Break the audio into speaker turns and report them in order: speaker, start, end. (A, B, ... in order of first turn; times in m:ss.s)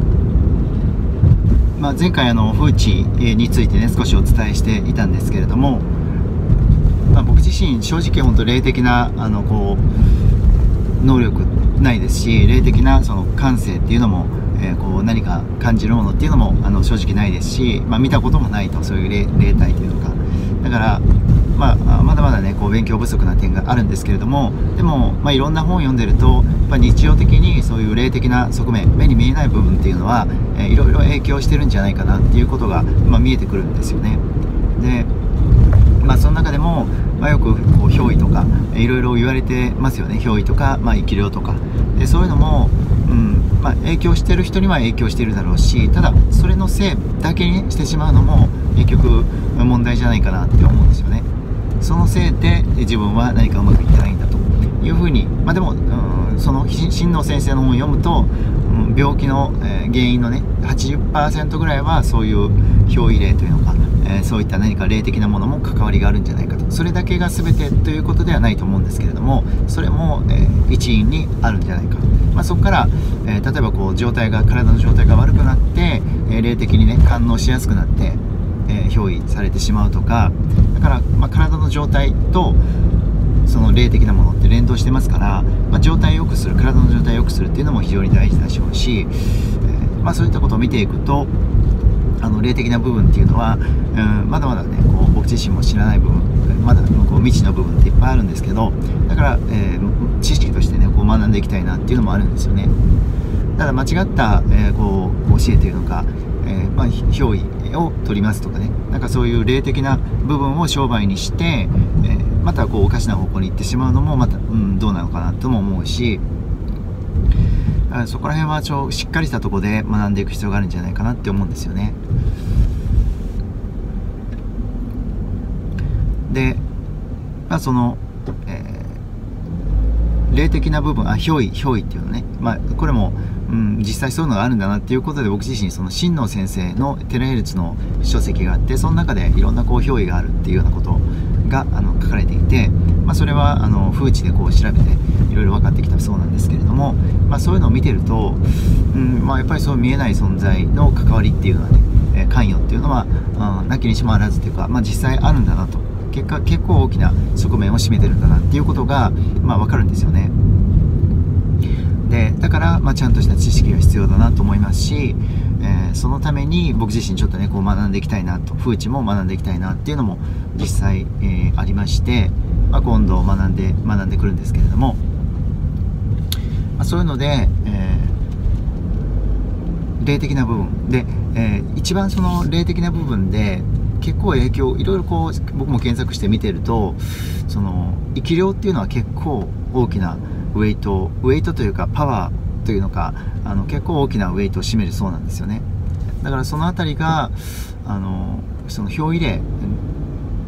0:01.8-0:05.9 A
0:07.1-0:09.9 A
0:11.0-0:34.2 A
0:34.8-0:35.1 A
0:36.0-0:51.3 A
0:51.8-1:22.6 A
1:23.4-1:31.3 A
1:32.2-1:42.7 A
1:43.6-1:56.2 A
1:57.9-2:02.0 A
2:06.3-2:06.6 A
2:07.5-2:09.0 A
2:10.3-2:40.3 A
2:42.0-2:55.0 A
2:56.8-2:58.2 A
3:00.0-3:15.6 A
3:16.2-3:19.8 A